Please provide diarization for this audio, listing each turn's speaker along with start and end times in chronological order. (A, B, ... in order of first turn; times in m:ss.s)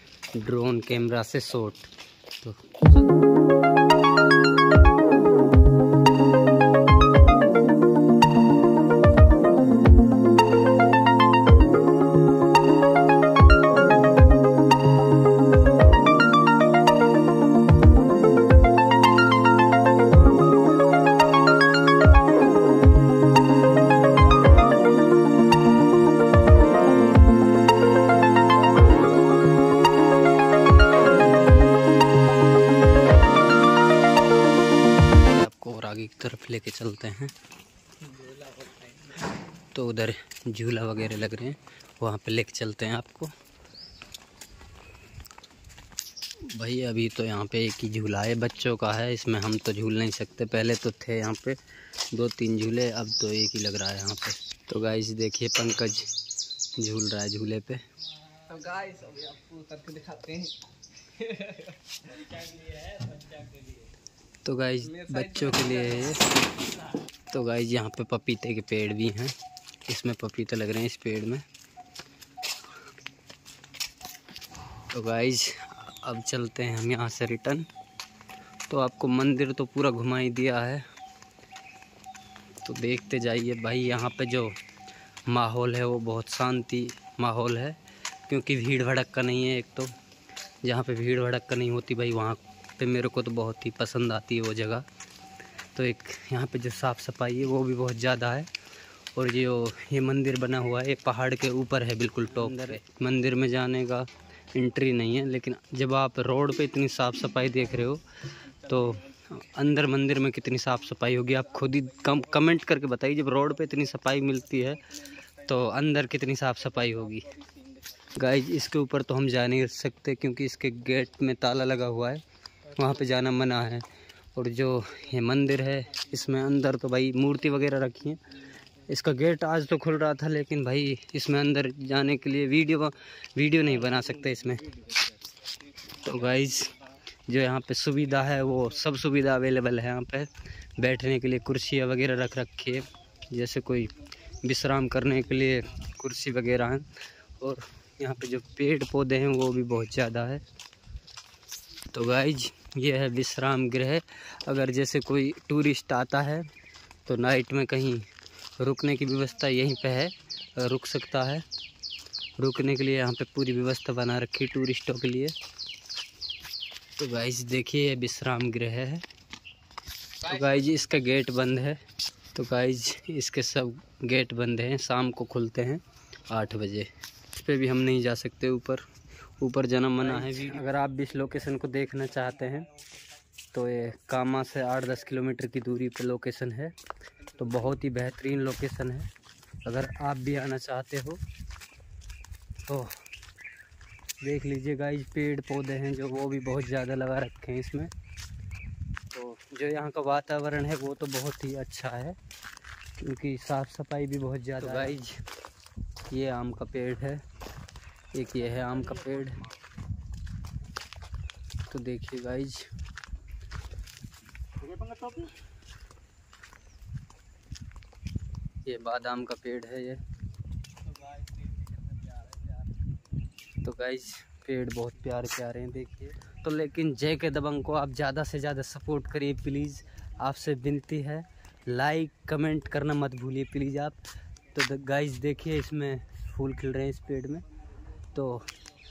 0:00.3-0:03.2 A
0:35.1-0:37.3 A
0:38.0-0:39.4 B
0:39.7-0:43.3 A
0:46.4-0:51.6 A
0:52.1-0:56.1 A
0:56.8-0:57.8 A
0:58.3-1:03.9 B
1:04.4-1:06.3 A
1:04.8-1:06.9 B
1:07.3-1:09.3 A
1:09.9-1:11.4 A
1:14.9-1:17.6 A
1:18.7-1:20.8 A
1:22.6-1:24.5 A
1:25.3-1:29.9 A
1:30.6-1:34.8 A
1:35.7-1:38.5 A
1:39.2-1:57.4 A
1:48.6-1:49.0 B
1:57.2-1:57.9 B
1:58.1-2:02.2 A
2:02.7-2:08.2 A
2:08.8-2:14.8 A
2:15.9-2:30.4 A
2:31.9-2:36.5 A
2:37.0-2:38.0 A
2:38.6-2:41.4 A
2:42.4-2:45.3 A
2:47.0-2:49.0 A
2:50.2-2:50.7 B
2:50.2-2:51.8 A
2:52.3-2:58.8 A
2:59.4-3:02.7 A
3:00.2-3:00.6 B
3:03.5-3:06.7 A
3:07.3-3:09.1 A
3:09.6-3:11.2 A
3:12.7-3:13.0 A
3:14.2-3:17.9 A
3:19.1-3:22.2 A
3:23.0-3:25.2 A
3:26.1-3:27.2 A
3:28.1-3:29.4 A
3:31.7-3:32.7 A
3:38.6-3:40.0 A
3:40.9-3:42.7 B
3:43.6-3:54.0 A
3:54.5-3:57.4 A
3:58.1-3:58.4 A